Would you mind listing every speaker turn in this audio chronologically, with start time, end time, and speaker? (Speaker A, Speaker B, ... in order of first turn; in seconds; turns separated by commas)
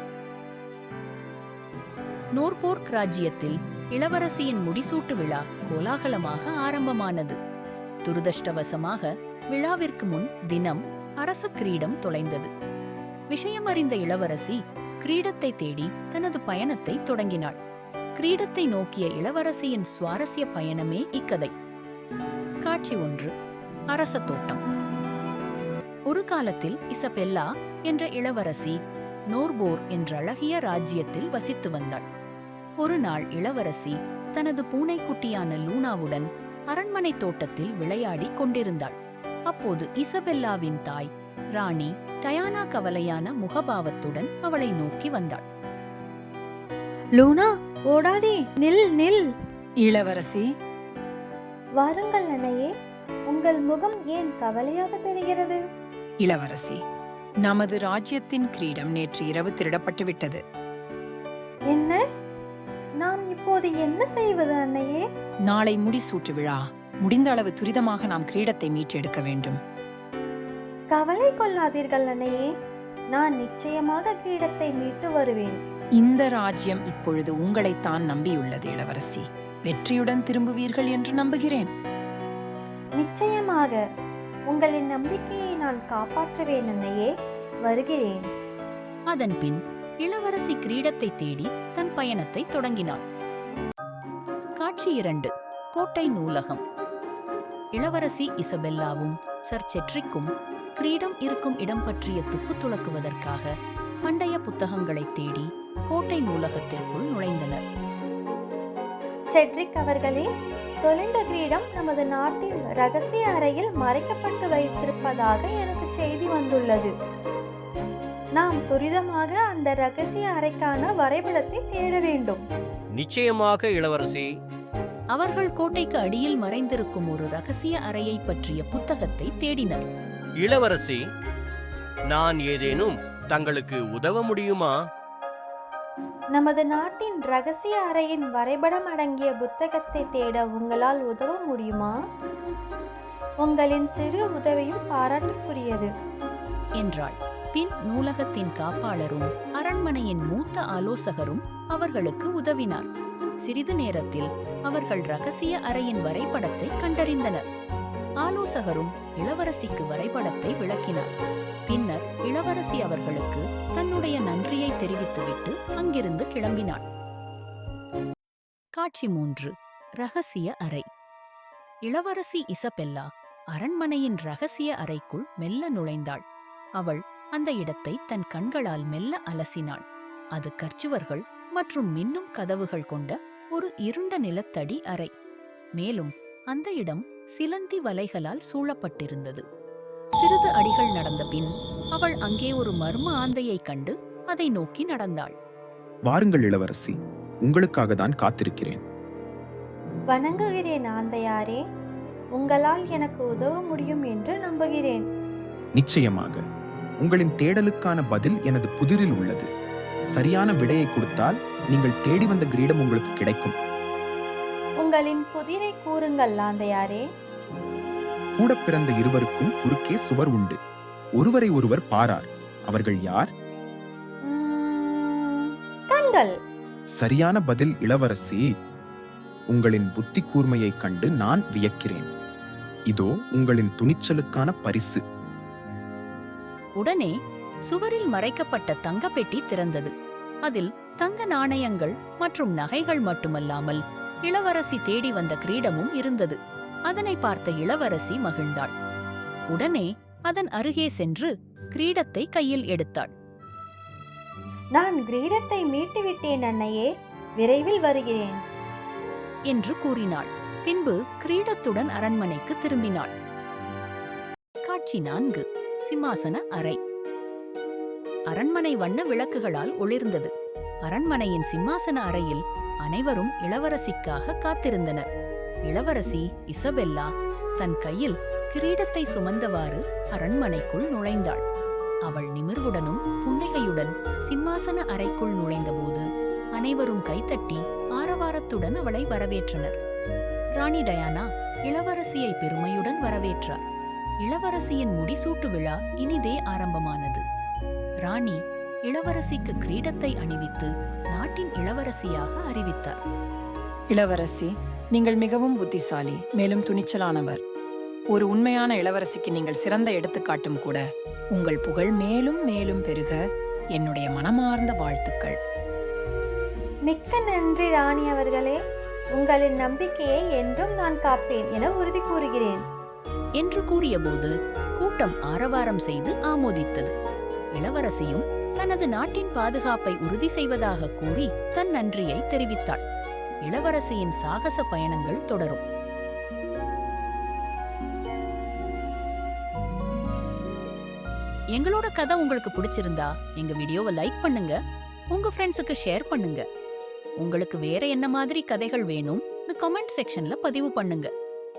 Speaker A: 2.4-7.4, Speaker A: 8.1-12.5, Speaker A: 13.3-17.6, Speaker A: 18.2-21.5, Speaker A: 22.7-23.3, Speaker A: 23.9-24.6, Speaker A: 26.1-28.8, Speaker A: 29.3-32.0, Speaker A: 32.8-39.0, Speaker A: 39.5-45.4, Speaker B: 47.2-49.3, Speaker C: 49.8-50.5, Speaker B: 51.8-52.7, Speaker B: 53.3-55.6, Speaker C: 56.2-56.8, Speaker C: 57.5-60.4, Speaker B: 61.7-62.0, Speaker B: 63.0-65.0, Speaker C: 65.5-69.6, Speaker B: 70.9-72.5, Speaker B: 73.1-75.6, Speaker C: 76.0-81.7, Speaker B: 83.0-83.8, Speaker B: 84.5-87.1, Speaker B: 87.7-88.2, Speaker A: 89.1-93.0, Speaker A: 94.6-96.6, Speaker A: 97.8-103.5, Speaker A: 104.0-107.6, Speaker B: 109.3-110.3, Speaker B: 110.8-116.9, Speaker B: 118.4-122.4, Speaker D: 122.9-124.3, Speaker A: 125.1-129.8, Speaker D: 130.4-131.1, Speaker D: 132.1-134.8, Speaker B: 136.3-141.9, Speaker B: 143.4-145.9, Speaker A: 146.8-152.9, Speaker A: 153.4-157.4, Speaker A: 158.2-161.1, Speaker A: 161.7-166.8, Speaker A: 168.8-170.8, Speaker A: 171.8-176.2, Speaker A: 176.8-179.8, Speaker A: 180.3-185.1, Speaker A: 185.8-189.4, Speaker A: 190.2-195.3, Speaker E: 196.1-198.8, Speaker B: 200.1-201.6, Speaker B: 202.4-205.0, Speaker E: 205.8-206.4, Speaker E: 207.0-209.5, Speaker E: 210.1-213.6, Speaker B: 214.8-217.0, Speaker E: 218.4-220.6, Speaker E: 221.2-223.3, Speaker B: 224.3-226.3, Speaker E: 227.0-228.4, Speaker E: 229.5-232.1, Speaker E: 232.9-235.0, Speaker A: 236.8-237.1, Speaker A: 237.7-239.9, Speaker A: 240.5-246.4, Speaker A: 246.9-248.7, Speaker A: 249.5-253.1, Speaker B: 254.8-256.9, Speaker B: 257.4-258.4, Speaker A: 259.5-263.1, Speaker A: 264.7-266.8, Speaker A: 268.3-270.3, Speaker A: 270.9-275.1, Speaker A: 275.7-281.4, Speaker A: 282.1-289.8, Speaker A: 290.6-293.6, Speaker A: 294.2-297.2, Speaker A: 298.0-303.0, Speaker C: 303.9-307.4, Speaker C: 308.1-310.8, Speaker C: 311.3-313.2, Speaker C: 313.8-315.4, Speaker B: 316.9-318.6, Speaker B: 319.2-322.6, Speaker A: 323.4-326.9, Speaker A: 327.6-332.8, Speaker A: 333.4-335.6, Speaker A: 341.5-344.6, Speaker A: 345.1-346.4, Speaker A: 347.2-351.1